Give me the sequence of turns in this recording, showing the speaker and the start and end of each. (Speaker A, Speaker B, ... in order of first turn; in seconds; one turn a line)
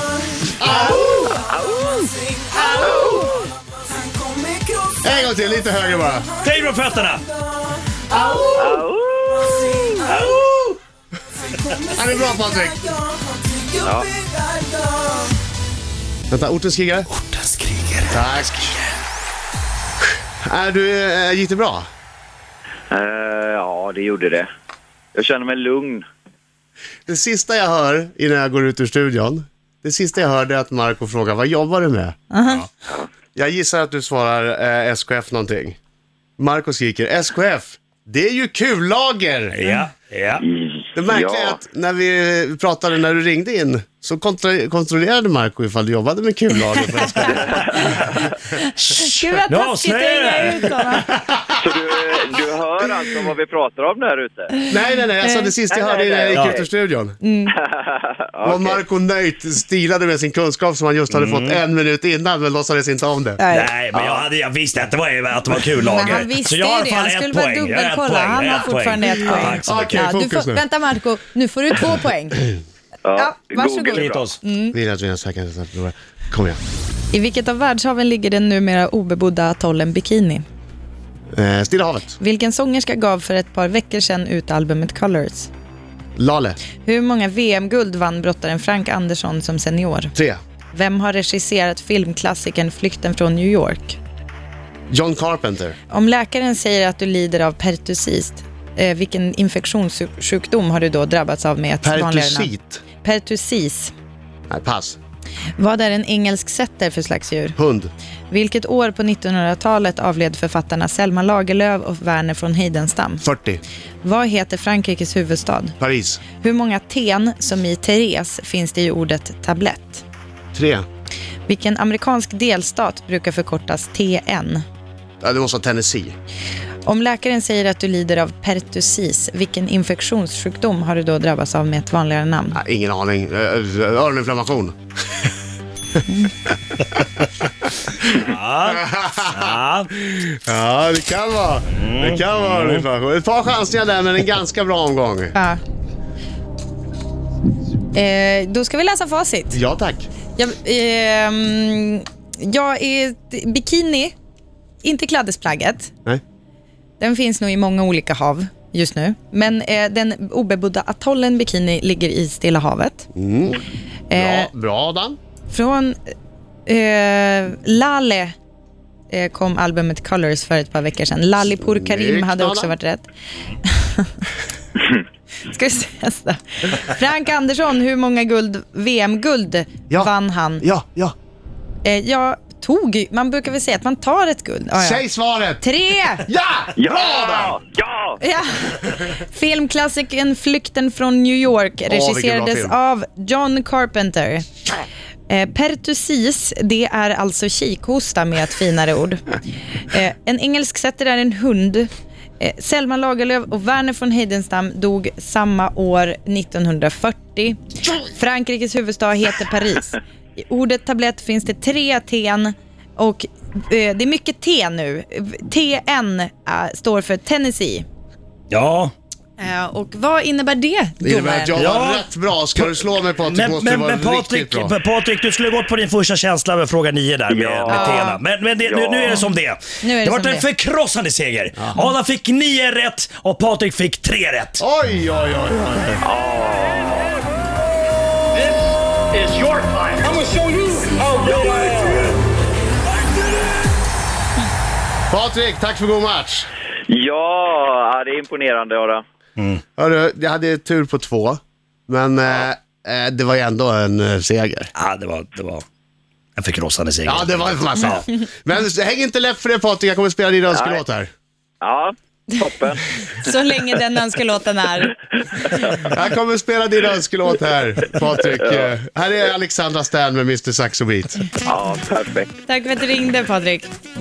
Speaker A: 0.6-1.4
Speaker B: 0.8-2.1
Speaker A: 2.6-3.2
Speaker B: 2.7-3.3
Speaker A: 5.0-6.3
Speaker C: 6.4-7.2
Speaker A: 8.1-8.8
Speaker B: 8.5-9.9
Speaker A: 10.1-10.7
Speaker A: 11.8-12.9
Speaker B: 13.8-14.1
Speaker A: 16.3-17.1
Speaker C: 17.2-18.1
Speaker A: 18.1-18.8
Speaker A: 20.4-21.9
Speaker B: 22.9-24.5
Speaker B: 25.1-26.1
Speaker A: 27.1-32.2
Speaker D: 32.3-32.7
Speaker A: 33.3-35.8
Speaker A: 36.4-39.6
Speaker C: 39.5-40.4
Speaker B: 40.4-41.6
Speaker A: 40.9-47.8
Speaker D: 46.8-51.1
Speaker B: 47.5-48.1
Speaker C: 49.0-50.6
Speaker A: 51.1-51.4
Speaker B: 51.6-54.5
Speaker D: 54.5-55.5
Speaker A: 54.7-57.2
Speaker B: 55.7-56.6
Speaker D: 57.2-57.5
Speaker B: 57.7-58.8
Speaker A: 58.4-63.4
Speaker C: 61.1-61.6
Speaker D: 63.4-63.7
Speaker C: 63.5-70.0
Speaker B: 63.9-64.3
Speaker D: 65.8-72.5
Speaker A: 69.6-70.6
Speaker B: 73.0-74.3
Speaker D: 73.2-74.8
Speaker C: 73.9-74.4
Speaker A: 74.7-76.6
Speaker D: 77.1-80.4
Speaker A: 81.3-82.2
Speaker D: 82.2-85.5
Speaker A: 86.2-86.6
Speaker D: 86.8-90.1
Speaker D: 90.7-94.0
Speaker A: 94.9-95.8
Speaker D: 95.9-103.9
Speaker A: 101.8-102.8
Speaker A: 104.5-105.0
Speaker D: 105.6-107.5
Speaker A: 107.6-107.9
Speaker D: 108.3-113.2
Speaker A: 113.2-113.6
Speaker D: 114.0-115.8
Speaker A: 115.8-116.2
Speaker D: 116.3-120.0
Speaker A: 120.5-120.8
Speaker D: 121.5-124.6
Speaker A: 125.2-126.1
Speaker D: 126.8-132.6
Speaker A: 132.5-134.7
Speaker C: 138.1-139.9
Speaker A: 138.7-145.3
Speaker C: 141.8-142.8
Speaker D: 145.3-145.6
Speaker D: 147.9-149.6
Speaker A: 149.5-150.1
Speaker D: 150.3-154.1
Speaker D: 154.8-155.9
Speaker D: 157.0-163.1
Speaker A: 163.1-163.6
Speaker D: 164.1-164.5
Speaker A: 164.1-165.2
Speaker D: 165.5-166.0
Speaker D: 166.7-168.3
Speaker D: 169.1-173.1
Speaker A: 171.6-172.7
Speaker D: 173.6-174.2
Speaker D: 175.4-180.6
Speaker A: 179.9-181.1
Speaker D: 181.8-185.0
Speaker A: 184.7-185.7
Speaker D: 185.6-186.2
Speaker A: 186.2-187.6
Speaker B: 186.8-188.2
Speaker D: 188.2-194.5
Speaker A: 191.9-192.7
Speaker D: 195.3-199.2
Speaker D: 199.9-217.8
Speaker C: 218.5-218.9
Speaker D: 219.4-221.6
Speaker A: 221.0-224.7
Speaker C: 221.6-222.0
Speaker C: 223.2-234.6
Speaker B: 227.3-228.1
Speaker D: 227.7-228.2
Speaker B: 228.6-229.3
Speaker D: 229.8-230.5
Speaker A: 234.6-236.0
Speaker B: 236.0-237.2
Speaker E: 239.3-241.4
Speaker A: 245.1-246.5
Speaker B: 246.9-249.0
Speaker A: 249.8-254.7
Speaker C: 254.8-255.6
Speaker C: 256.4-258.0
Speaker A: 257.0-261.1
Speaker B: 260.5-260.8
Speaker B: 261.6-263.3
Speaker D: 263.2-264.9
Speaker B: 265.5-265.9
Speaker A: 265.8-271.3
Speaker B: 268.4-268.7
Speaker B: 271.4-272.4
Speaker D: 272.4-273.7